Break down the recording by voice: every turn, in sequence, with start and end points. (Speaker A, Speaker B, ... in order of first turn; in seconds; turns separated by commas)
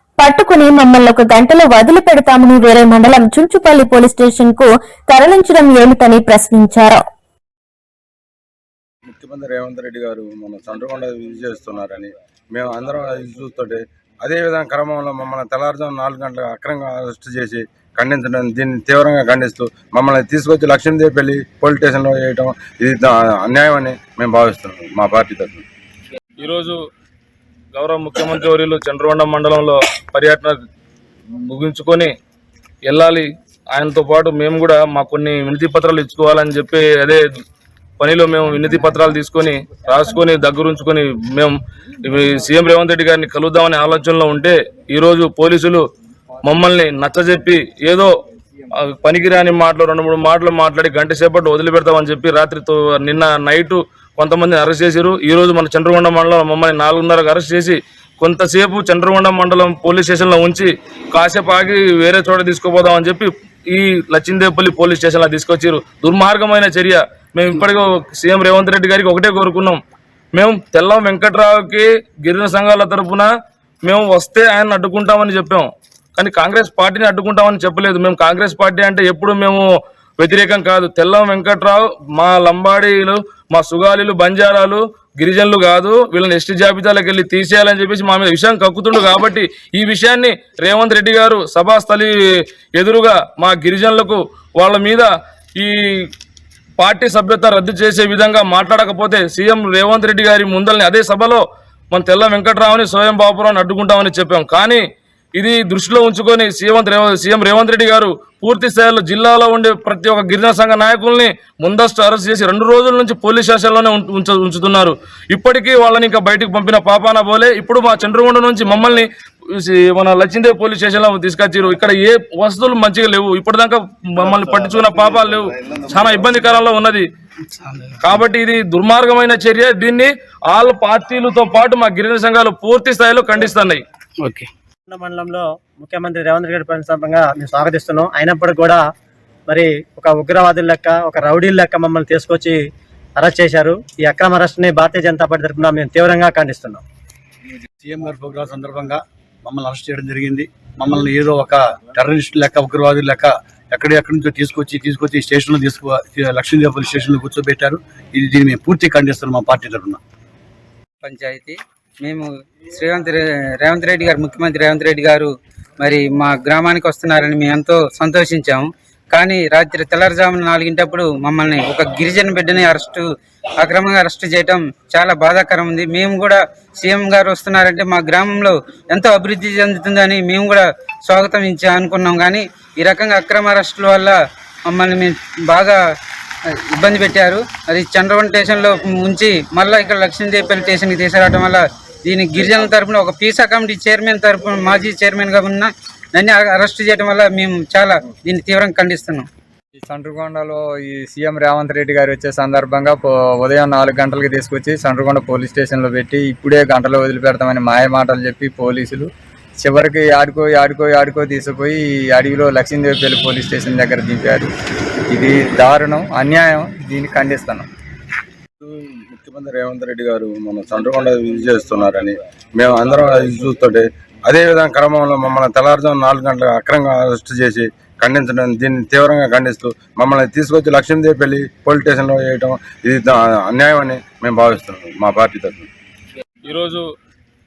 Speaker A: 0.2-7.0, Speaker B: 9.1-25.6, Speaker C: 26.4-26.8, Speaker C: 27.7-30.6, Speaker C: 31.4-32.1, Speaker C: 32.9-37.2, Speaker C: 38.0-45.8, Speaker C: 46.4-48.1, Speaker C: 48.8-69.8, Speaker C: 70.3-73.3, Speaker C: 73.8-79.6, Speaker C: 80.2-92.1, Speaker C: 92.7-96.1, Speaker C: 96.8-104.8, Speaker C: 105.3-127.0, Speaker C: 128.0-133.8, Speaker D: 134.9-138.8, Speaker D: 139.5-142.6, Speaker D: 143.2-146.8, Speaker E: 147.8-160.0, Speaker F: 161.0-173.0, Speaker F: 173.6-184.1, Speaker F: 184.7-185.8, Speaker F: 186.7-199.2, Speaker G: 199.9-209.1, Speaker G: 209.6-214.5, Speaker G: 215.1-217.7, Speaker B: 218.6-235.7, Speaker C: 236.4-236.8